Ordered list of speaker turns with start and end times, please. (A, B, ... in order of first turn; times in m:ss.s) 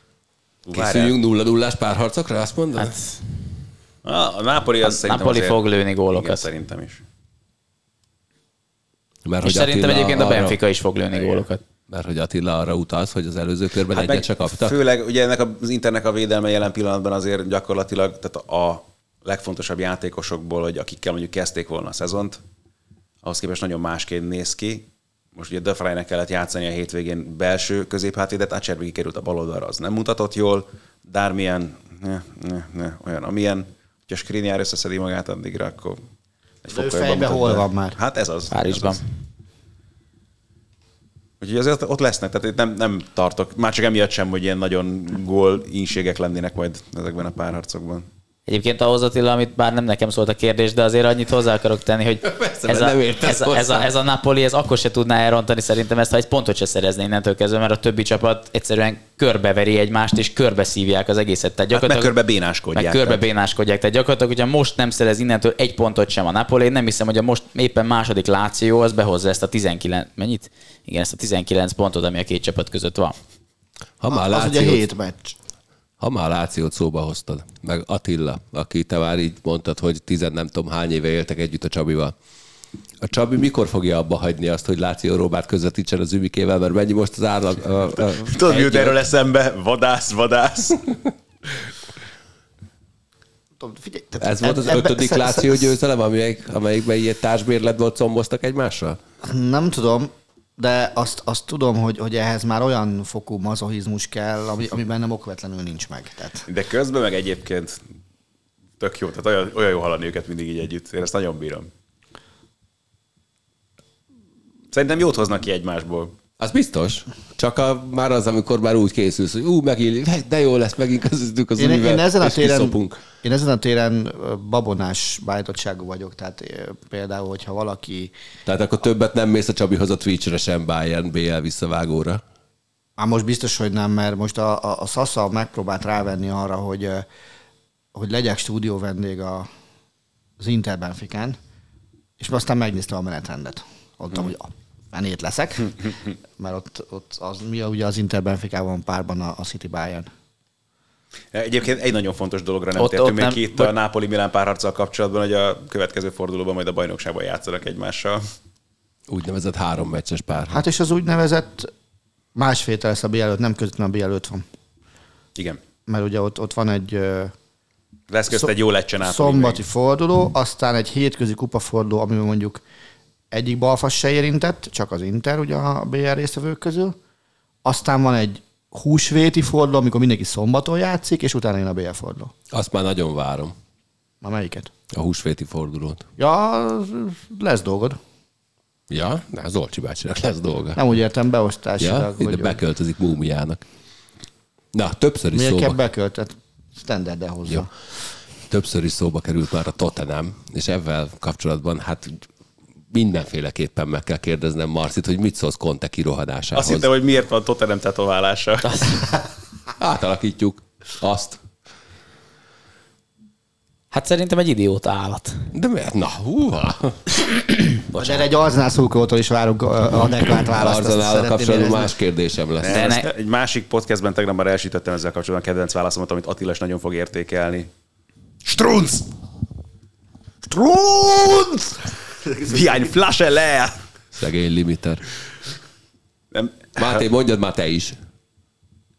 0:00.7-0:01.1 A
0:00.7-0:03.0 B
0:02.8-0:03.4 C
0:04.0-0:07.0 A
0:04.8-0:06.4 C
0:09.3-0:10.6 B
0:09.4-0:11.6 C
0:11.9-0:14.8 B
0:13.9-0:22.4 A
0:23.2-0:36.0 A
0:36.6-0:39.0 A
0:36.7-0:38.0 D
0:38.5-0:39.0 C
0:41.4-0:48.1 A
0:48.5-1:02.1 C
0:52.2-0:53.9 B
1:01.7-1:03.2 A
1:02.8-1:13.2 C
1:14.0-1:14.9 B
1:14.1-1:15.4 D
1:16.0-1:22.1 B
1:23.0-1:29.0 B
1:28.3-1:30.8 A
1:33.6-1:35.7 D
1:34.2-1:39.0 B
1:39.2-1:46.4 D
1:46.5-1:47.8 A
1:48.8-1:51.7 A
1:54.7-1:56.2 A
1:56.4-2:03.0 B
2:01.6-2:08.1 D
2:08.5-2:12.2 B
2:13.0-2:17.1 D
2:17.9-2:19.5 D
2:20.4-2:21.4 D
2:22.2-2:30.1 D
2:31.3-2:38.3 A
2:32.8-2:33.7 C
2:39.1-2:40.6 B
2:40.5-2:41.7 D
2:42.4-2:44.4 D
2:45.9-2:47.3 D
2:48.1-2:49.6 A
2:48.3-2:52.6 D
2:53.3-2:57.0 D
2:57.6-3:02.3 D
3:02.5-3:03.6 B
3:04.2-3:04.7 D
3:04.9-3:06.1 B
3:06.2-3:08.0 D
3:08.9-3:10.8 B
3:10.8-3:12.6 D
3:11.8-3:13.6 B
3:14.7-3:15.8 B
3:15.3-3:17.7 D
3:18.5-3:22.2 B
3:22.9-3:26.9 B
3:26.6-3:29.0 A
3:28.6-3:29.0 C
3:29.8-3:31.4 B
3:33.9-3:35.5 C
3:35.5-3:37.1 B
3:37.9-3:38.3 B
3:38.0-3:41.9 D
3:40.6-3:42.8 B
3:42.6-3:47.7 A
3:42.6-3:43.1 C
3:48.4-3:49.1 A
3:50.5-3:51.8 A
3:52.2-3:52.9 D
3:52.4-3:53.8 A
3:54.2-3:55.0 B
3:56.3-3:57.0 A
3:56.8-3:58.0 B